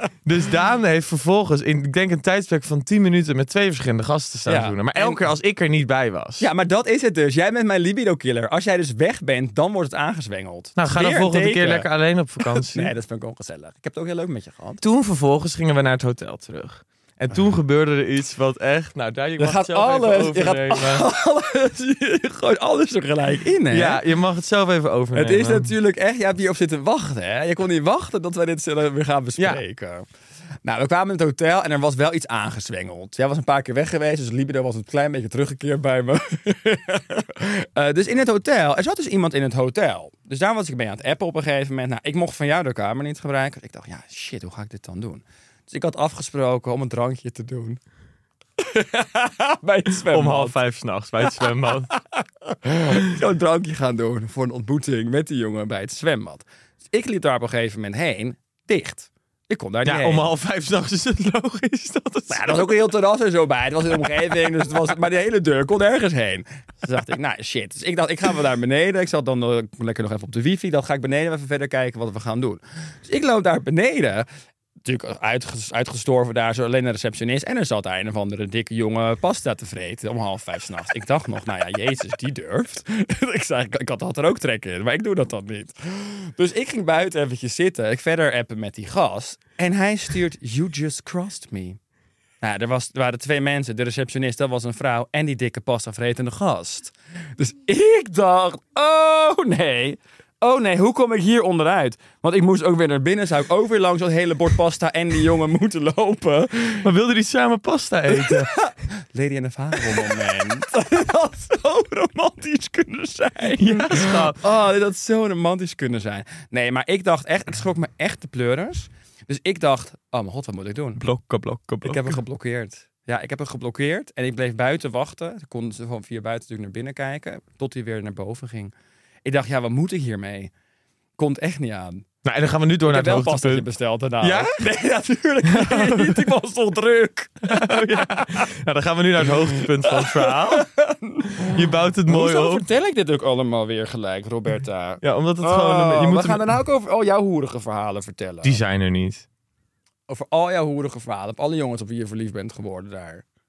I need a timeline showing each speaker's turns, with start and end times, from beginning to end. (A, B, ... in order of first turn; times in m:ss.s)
0:00.2-0:06.5 A
0:04.5-0:05.2 B
0:06.4-0:14.8 B
0:10.8-0:12.9 A
0:14.8-0:21.1 A
0:19.4-0:24.0 B
0:23.7-0:25.7 A
0:25.1-0:30.1 B
0:29.4-0:29.6 A
0:30.6-0:47.8 B
0:48.6-0:50.6 B
0:50.0-0:51.9 A
0:51.2-1:00.3 B
0:59.8-1:02.9 A
1:02.3-1:14.3 B
1:14.8-1:31.8 B
1:32.4-1:46.8 B
1:46.8-1:48.6 A
1:48.1-2:01.0 B
1:49.8-1:50.3 A
1:53.6-1:54.4 A
2:01.0-2:02.2 A
2:01.8-2:08.7 B
2:09.2-2:10.5 B
2:11.2-2:12.0 B
2:12.2-2:13.6 A
2:12.9-2:18.4 B
2:14.2-2:14.7 A
2:15.4-2:16.3 A
2:17.4-2:20.7 A
2:19.6-2:28.6 B
2:21.3-2:22.7 A
2:25.0-2:26.5 A
2:28.4-2:29.2 A
2:30.1-2:33.2 B